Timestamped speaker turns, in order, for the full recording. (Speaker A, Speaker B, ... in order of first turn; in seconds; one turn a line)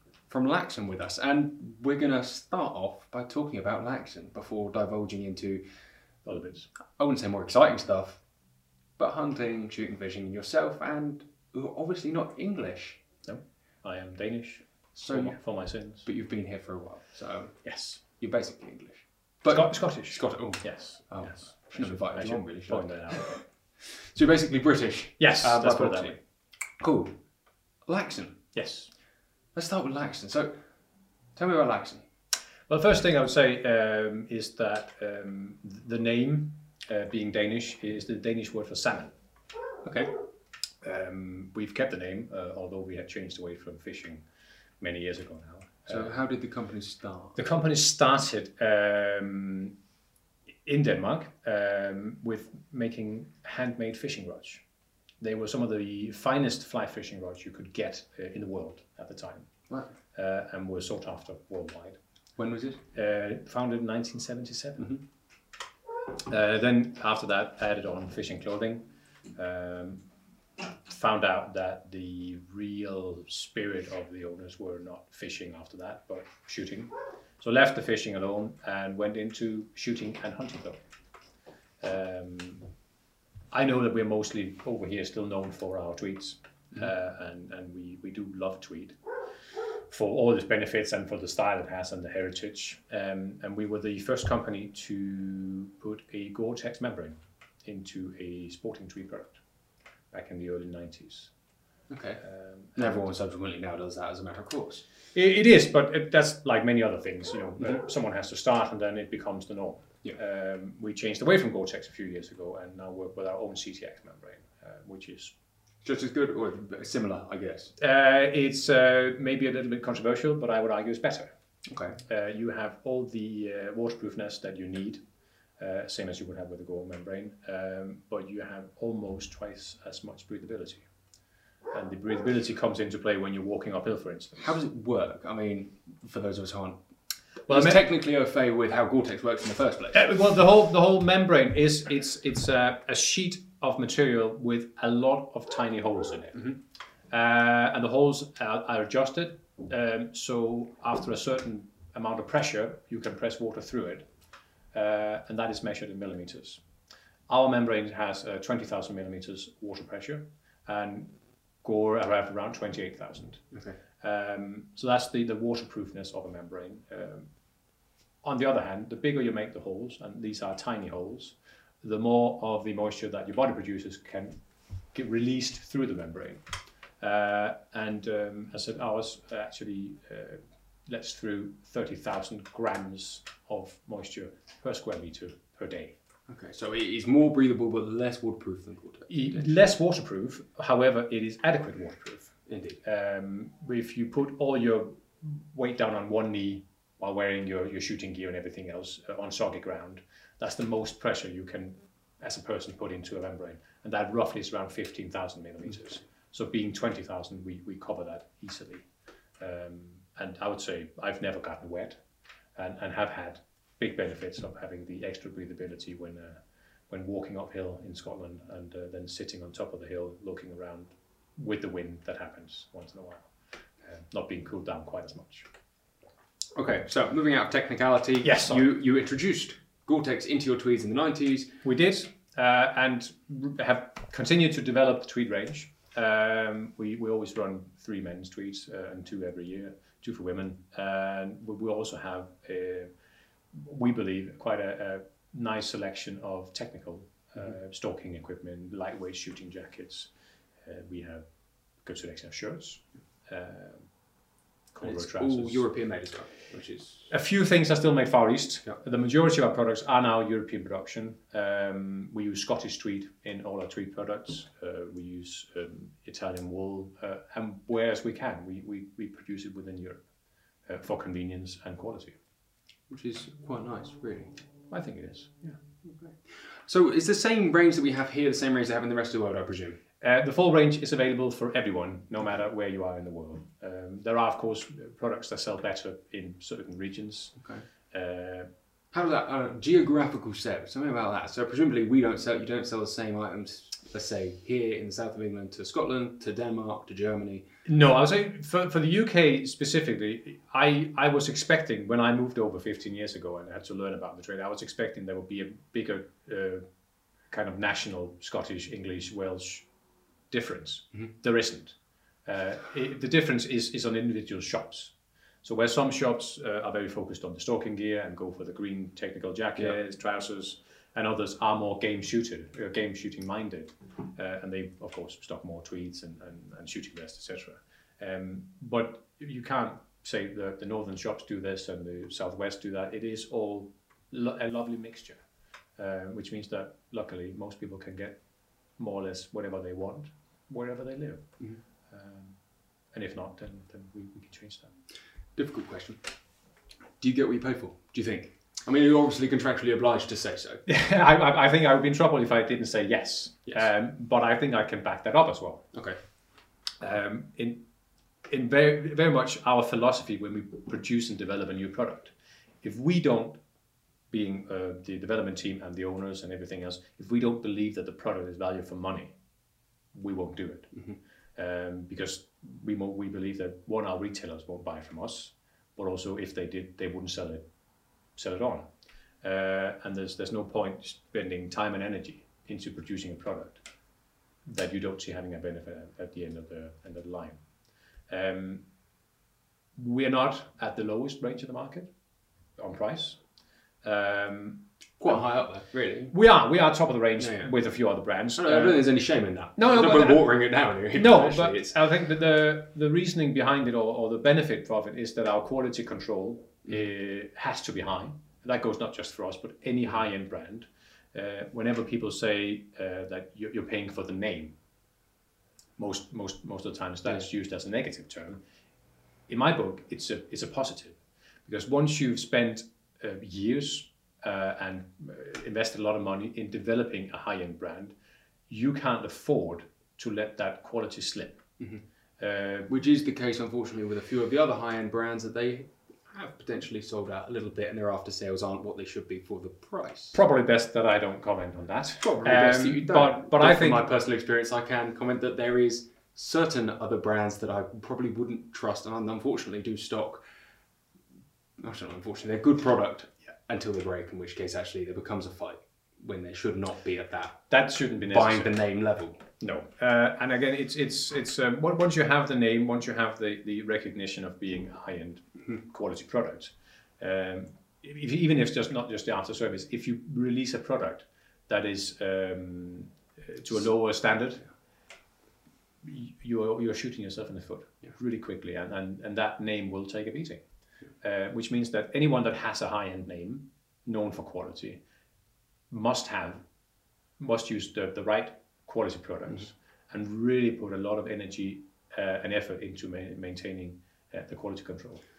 Speaker A: 0.3-5.6
Speaker B: 6.2-6.7
Speaker A: 7.0-8.2
Speaker A: 9.0-13.0
Speaker B: 13.2-16.1
Speaker A: 14.9-15.4
Speaker A: 16.0-26.2
Speaker B: 17.6-18.0
Speaker B: 19.5-23.4
Speaker B: 25.2-26.2
Speaker A: 26.8-27.2
Speaker A: 27.9-28.4
Speaker B: 28.5-28.9
Speaker A: 29.5-30.6
Speaker A: 31.3-32.0
Speaker B: 32.7-39.1
Speaker A: 39.8-40.1
Speaker B: 40.8-44.2
Speaker B: 44.8-46.1
Speaker A: 45.9-47.4
Speaker B: 47.4-49.7
Speaker B: 50.6-54.6
Speaker B: 55.2-59.5
Speaker B: 60.1-62.0
Speaker A: 62.4-62.8
Speaker B: 62.9-64.9
Speaker B: 66.1-70.0
Speaker B: 70.6-80.8
Speaker B: 81.8-82.6
Speaker B: 83.5-89.0
Speaker B: 89.9-99.4
Speaker B: 100.1-101.3
Speaker A: 101.9-102.2
Speaker B: 102.2-103.1
Speaker A: 102.8-104.8
Speaker B: 105.1-115.3
Speaker A: 115.8-117.7
Speaker B: 117.8-121.3
Speaker A: 121.7-122.0
Speaker B: 122.0-125.0
Speaker B: 125.6-130.8
Speaker B: 131.7-134.6
Speaker A: 134.4-136.8
Speaker A: 137.5-140.0
Speaker B: 137.5-137.8
Speaker B: 139.9-146.6
Speaker B: 147.1-154.1
Speaker B: 154.7-156.6
Speaker B: 157.3-163.4
Speaker A: 163.5-163.8
Speaker B: 164.0-167.3
Speaker B: 168.2-174.4
Speaker B: 174.9-176.4
Speaker B: 177.0-185.9
Speaker A: 186.3-189.5
Speaker B: 189.1-208.9
Speaker A: 192.5-192.8
Speaker B: 209.4-212.0
Speaker B: 212.6-223.3
Speaker B: 223.9-225.5
Speaker A: 226.6-231.6
Speaker B: 228.2-228.7
Speaker B: 231.6-242.9
Speaker B: 243.5-250.1
Speaker B: 250.6-251.2
Speaker B: 251.8-253.9
Speaker B: 254.7-255.6
Speaker A: 254.8-257.1
Speaker B: 257.1-270.0
Speaker B: 270.7-272.1
Speaker A: 272.9-274.4
Speaker B: 274.7-275.6
Speaker A: 275.8-279.8
Speaker B: 280.0-287.3
Speaker A: 287.4-287.6
Speaker B: 287.9-288.5
Speaker A: 288.9-297.4
Speaker B: 297.6-306.6
Speaker B: 307.3-309.6
Speaker B: 310.3-314.9
Speaker B: 315.4-335.2
Speaker B: 335.8-338.2
Speaker B: 338.8-341.2
Speaker B: 341.9-342.4
Speaker B: 342.9-344.7
Speaker A: 345.4-346.0
Speaker A: 347.0-350.6
Speaker B: 350.7-355.7
Speaker A: 355.7-356.0
Speaker B: 356.8-357.6
Speaker B: 358.3-363.4
Speaker B: 364.1-369.1
Speaker B: 369.9-370.7
Speaker B: 371.4-377.4
Speaker B: 378.1-378.7
Speaker B: 379.2-383.6
Speaker B: 384.4-387.4
Speaker B: 388.1-388.6
Speaker B: 389.8-391.9
Speaker B: 392.6-393.2
Speaker B: 393.8-395.2
Speaker A: 395.0-396.1
Speaker B: 396.1-398.8
Speaker A: 397.2-397.5
Speaker A: 398.4-401.8
Speaker B: 399.6-400.3
Speaker B: 400.9-414.5
Speaker B: 415.8-418.4
Speaker B: 419.3-427.9
Speaker B: 428.5-431.4
Speaker B: 432.2-432.7
Speaker A: 432.7-440.2
Speaker B: 440.1-443.8
Speaker A: 442.0-450.2
Speaker A: 451.6-457.4
Speaker B: 457.5-458.5
Speaker A: 458.1-459.2
Speaker B: 459.4-474.4
Speaker B: 475.8-480.4
Speaker B: 481.0-484.8
Speaker B: 485.7-486.4
Speaker B: 487.2-495.0